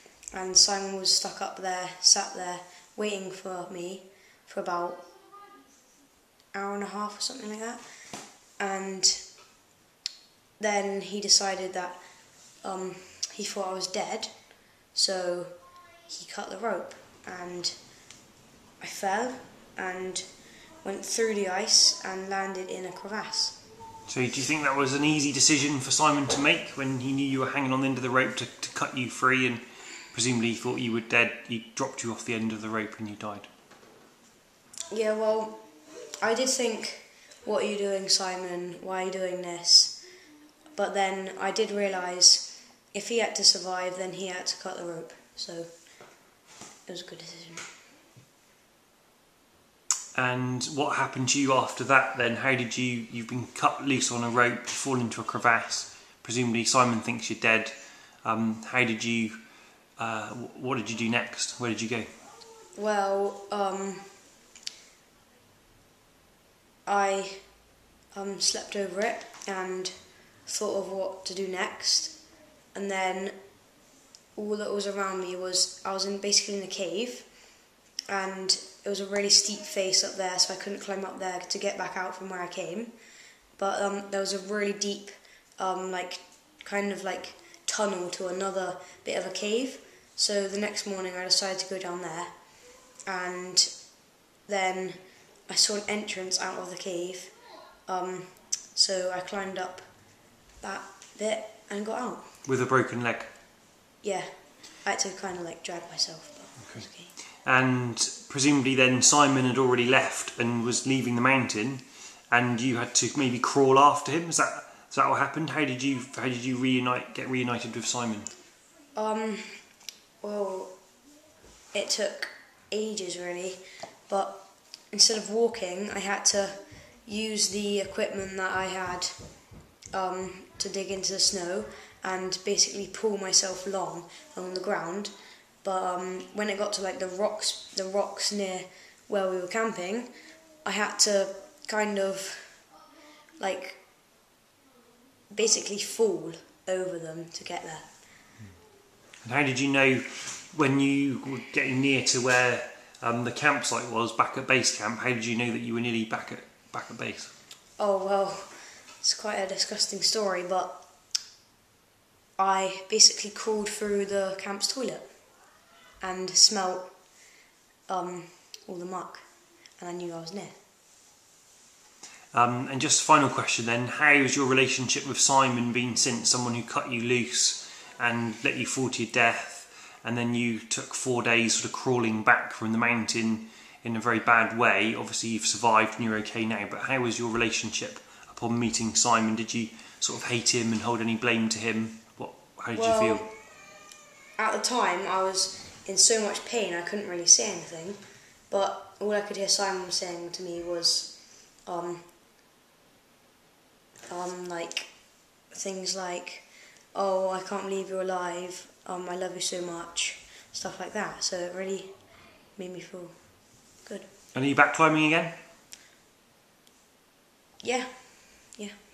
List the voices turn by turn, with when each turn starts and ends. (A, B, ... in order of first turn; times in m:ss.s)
0:00.3-0:05.0 A
0:06.5-0:07.8 A
0:08.6-0:09.2 A
0:10.6-0:12.0 A
0:12.6-0:14.3 A
0:14.9-0:15.6 A
0:16.1-0:17.8 A
0:18.8-0:20.3 A
0:20.8-0:23.6 A
0:24.1-0:33.5 B
0:34.9-0:35.6 A
0:36.2-0:40.0 A
0:40.8-0:45.7 A
0:46.9-0:47.7 A
0:50.1-0:57.7 B
0:58.2-0:59.4 B
1:00.0-1:02.1 B
1:02.8-1:04.2 A
1:06.8-1:07.4 A
1:08.1-1:09.9 A
1:10.5-1:12.2 A
1:12.7-1:13.4 A
1:14.4-1:17.3 A
1:18.1-1:22.9 A
1:23.6-1:32.3 A
1:33.1-1:33.7 A
1:34.5-1:37.3 A
1:37.9-1:39.8 A
1:40.6-1:42.3 A
1:42.4-1:43.3 B
1:44.0-1:44.3 A
1:44.8-1:47.1 A
1:47.4-1:58.3 B
1:58.9-1:59.5 A
2:00.2-2:00.7 A
2:01.7-2:09.1 A
2:09.9-2:20.1 A
2:20.6-2:22.6 A
2:23.4-2:23.8 A
2:25.3-2:27.9 A
2:29.2-2:37.3 B
2:37.8-2:40.8 A
2:42.4-2:45.1 A
2:46.0-2:46.9 A
2:47.9-2:49.3 A
2:49.8-2:50.6 A
2:52.3-3:13.3 B
3:12.7-3:13.3 A
3:14.4-3:21.1 A
3:21.6-3:22.0 A
3:24.1-3:24.9 A
3:25.5-3:31.9 A
3:32.6-3:33.2 A
3:34.3-3:35.3 B
3:37.6-3:38.7 A